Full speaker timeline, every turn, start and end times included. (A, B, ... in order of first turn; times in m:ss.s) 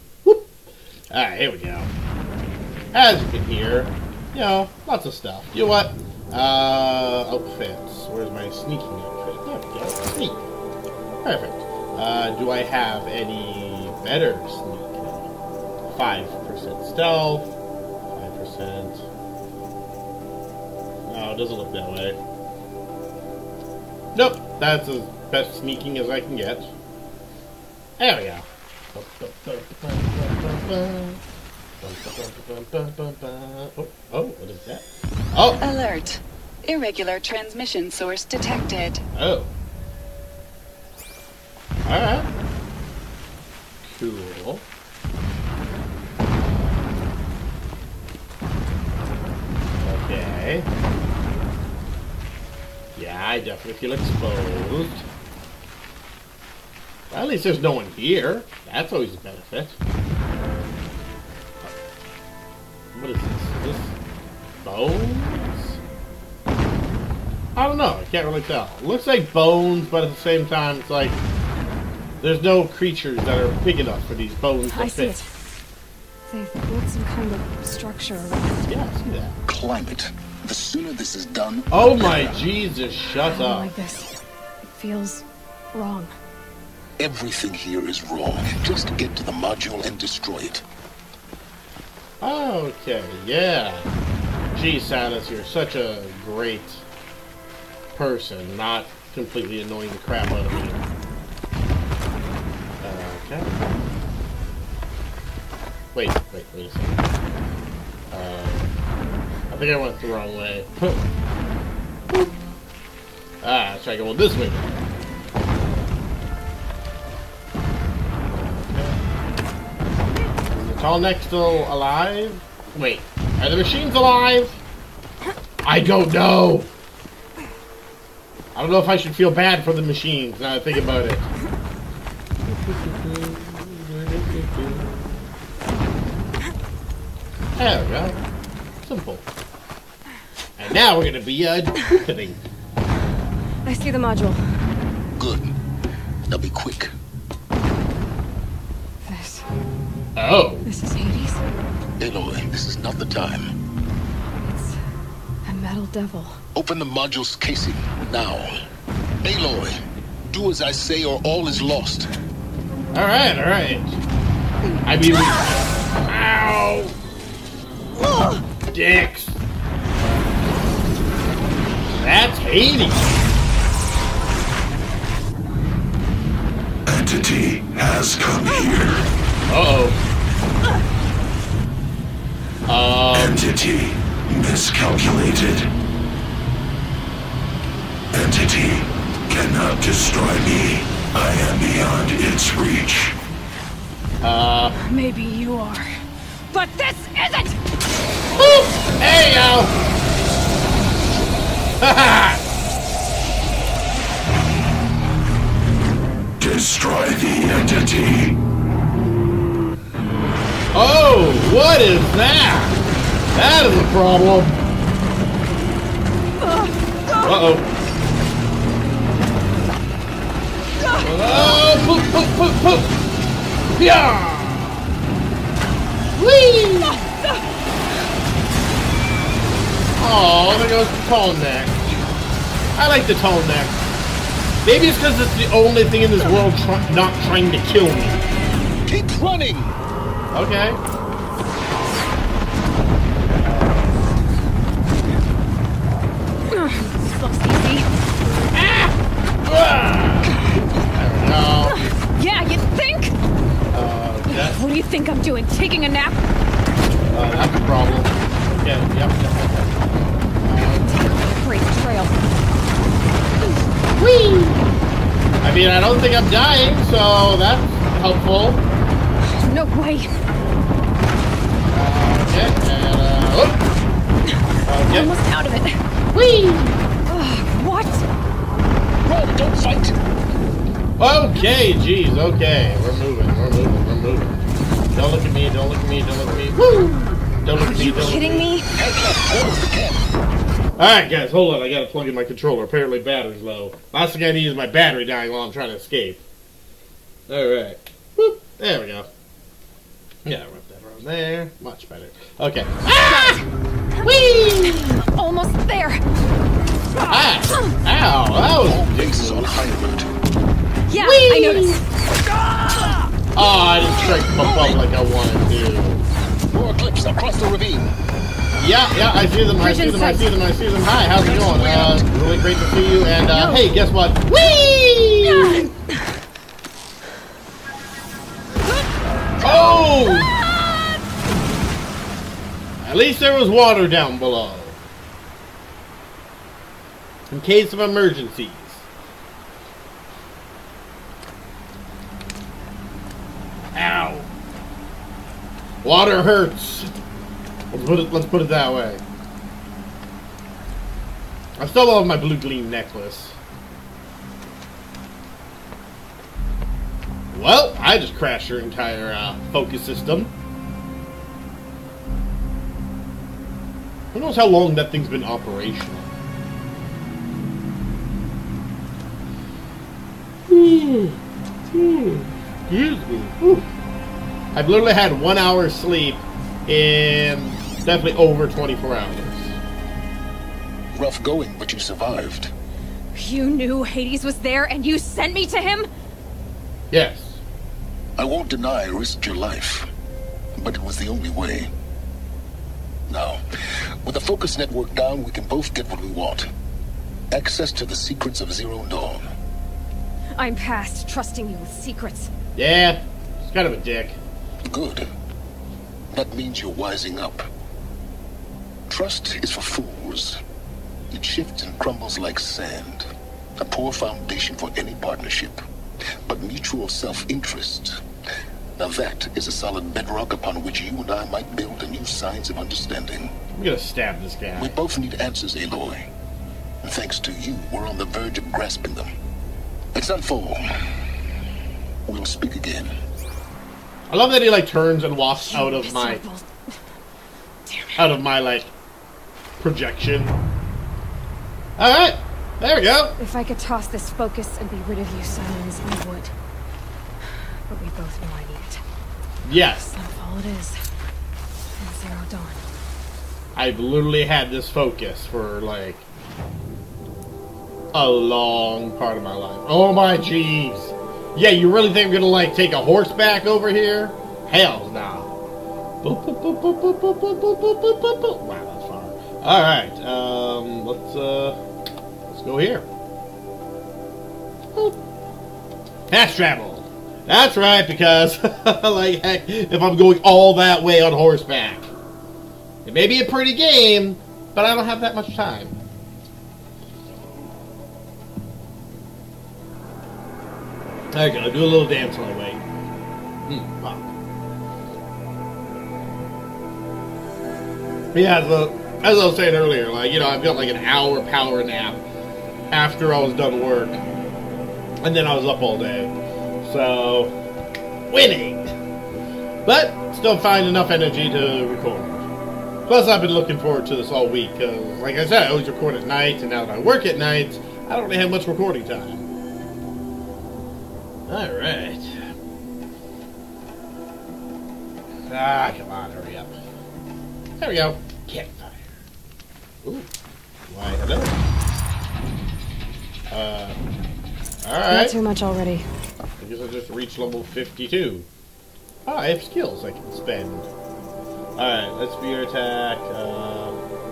0:00.2-0:00.5 A
0:01.1-0:01.9 A
0:02.9-0:10.4 A
0:11.2-0:15.3 A
0:15.9-0:17.5 A
0:18.1-0:19.0 A
0:21.1-0:22.2 A
0:24.1-0:26.7 A
0:28.0-0:31.2 A
0:31.8-0:35.6 A
0:35.6-0:39.0 B
0:39.1-0:39.5 A
0:41.8-0:42.3 A
0:43.8-0:44.6 A
0:46.3-0:47.0 A
0:49.8-0:50.7 A
0:53.0-0:55.0 A
0:57.1-0:59.8 A
1:02.9-1:03.9 A
1:04.6-1:05.8 A
1:07.5-1:11.2 A
1:12.2-1:15.1 A
1:14.7-1:15.3 C
1:16.3-1:18.5 C
1:18.7-1:19.4 A
1:19.4-1:22.4 D
1:21.7-1:23.7 A
1:23.1-1:24.1 C
1:24.7-1:26.1 C
1:27.0-1:30.6 D
1:32.2-1:33.9 A
1:34.5-1:36.8 A
1:37.9-1:40.8 A
1:42.8-1:43.5 A
1:45.9-1:47.0 A
1:48.1-1:48.8 A
1:49.5-1:51.0 A
1:53.4-1:54.9 A
1:58.3-1:59.0 A
2:00.5-2:04.6 A
2:05.6-2:06.7 A
2:08.5-2:11.3 A
2:12.5-2:14.9 A
2:17.6-2:18.2 A
2:18.8-2:19.2 A
2:20.6-2:22.4 A
2:23.6-2:24.4 C
2:25.2-2:25.5 D
2:26.3-2:26.9 D
2:29.0-2:29.5 C
2:30.2-2:30.7 A
2:30.6-2:31.4 C
2:32.0-2:33.5 D
2:34.4-2:34.8 C
2:35.4-2:36.4 C
2:36.5-2:38.6 D
2:39.2-2:42.1 D
2:42.9-2:44.0 A
2:44.8-2:46.9 A
2:48.0-2:48.4 C
2:48.7-2:49.4 A
2:51.9-2:53.0 A
2:56.8-2:59.0 E
2:59.5-3:00.0 A
3:02.7-3:03.4 A
3:03.1-3:05.7 E
3:08.1-3:13.1 E
3:14.2-3:14.7 A
3:14.8-3:15.9 C
3:16.5-3:17.6 C
3:18.4-3:19.7 A
3:21.8-3:22.4 A
3:26.4-3:28.4 E
3:30.7-3:32.8 A
3:33.3-3:34.6 A
3:36.4-3:37.4 C
3:37.2-3:37.7 A
3:40.8-3:41.6 C
3:41.0-3:43.0 A
3:43.8-3:44.9 A
3:46.2-3:47.0 A
3:46.8-3:47.4 C
3:50.0-3:52.0 A
3:52.8-3:53.8 A
3:54.6-3:58.2 A
3:58.8-3:59.7 D
4:00.3-4:00.8 A
4:03.2-4:04.0 A
4:06.5-4:07.9 C
4:08.5-4:10.3 A
4:10.2-4:10.8 C
4:10.9-4:11.8 A
4:11.6-4:13.1 C
4:13.7-4:14.6 A
4:14.3-4:16.2 C
4:17.1-4:20.9 A
4:20.7-4:22.2 C
4:24.0-4:24.6 A
4:25.4-4:28.6 A
4:29.2-4:30.1 C
4:31.7-4:33.6 A
4:34.3-4:35.8 C
4:34.7-4:35.1 A
4:36.1-4:36.8 A
4:37.1-4:38.0 C
4:39.0-4:40.0 D
4:41.0-4:48.5 A
4:47.5-4:48.7 C
4:48.7-4:50.0 D
4:50.8-4:56.2 A
4:57.3-4:59.1 A
5:00.2-5:03.4 A
5:02.9-5:03.4 C
5:04.0-5:06.0 C
5:04.0-5:05.0 A
5:06.9-5:07.8 C
5:07.1-5:09.7 A
5:08.6-5:10.1 D
5:10.9-5:11.8 C
5:11.0-5:11.8 A
5:13.3-5:16.0 A
5:13.9-5:14.8 D
5:16.5-5:17.9 D
5:18.6-5:25.7 A
5:19.6-5:20.3 C
5:21.0-5:22.1 D
5:23.2-5:23.8 C
5:25.2-5:26.0 C
5:29.4-5:30.3 A
5:29.4-5:30.4 C
5:32.8-5:34.8 A
5:37.3-5:38.8 A
5:43.7-5:44.3 A
5:45.8-5:46.9 A
5:47.7-5:49.0 A
5:51.6-5:53.4 A
5:57.3-6:00.3 A
6:04.1-6:06.1 A
6:10.5-6:11.2 A
6:11.7-6:13.7 A
6:14.5-6:19.6 A
6:20.9-6:22.5 D
6:23.1-6:25.9 C
6:26.9-6:27.4 A
6:28.2-6:29.9 D
6:30.6-6:31.7 D
6:33.1-6:33.4 D
6:34.0-6:36.5 D
6:37.3-6:39.2 D
6:40.4-6:42.3 C
6:42.6-6:44.2 A
6:44.6-6:45.1 D
6:46.1-6:47.5 D
6:48.9-6:50.4 D
6:51.1-6:53.1 D
6:53.6-6:55.6 D
6:56.2-6:58.0 D
6:58.8-7:03.3 D
7:03.5-7:04.8 A
7:04.6-7:06.1 D
7:06.8-7:09.1 D
7:09.9-7:10.7 D
7:12.0-7:12.9 D
7:14.1-7:16.2 A
7:15.4-7:16.5 C
7:17.7-7:18.1 C
7:18.0-7:18.7 A
7:19.6-7:20.4 A
7:21.8-7:23.1 A
7:23.2-7:26.3 C
7:27.3-7:28.8 C
7:29.4-7:29.8 A
7:29.7-7:30.8 C
7:31.7-7:32.6 C
7:33.5-7:36.0 A
7:37.9-7:45.3 A
7:46.0-7:51.6 A
7:52.2-7:52.9 A
7:56.1-8:01.9 A
8:02.8-8:05.8 A
8:11.1-8:12.6 A
8:13.5-8:14.1 A
8:18.1-8:22.0 A
8:22.7-8:24.0 A
8:25.0-8:27.3 A
8:28.1-8:28.7 A
8:29.6-8:32.2 A
8:32.9-8:39.2 A
8:41.3-8:42.3 A
8:45.3-8:46.5 A
8:47.6-8:48.9 A
8:49.8-8:50.1 A
8:50.7-8:51.4 A
8:53.3-8:53.8 A
8:54.6-8:55.1 A
8:54.9-8:55.8 C
8:56.4-8:58.3 A
8:59.0-9:00.7 A
9:01.6-9:03.8 A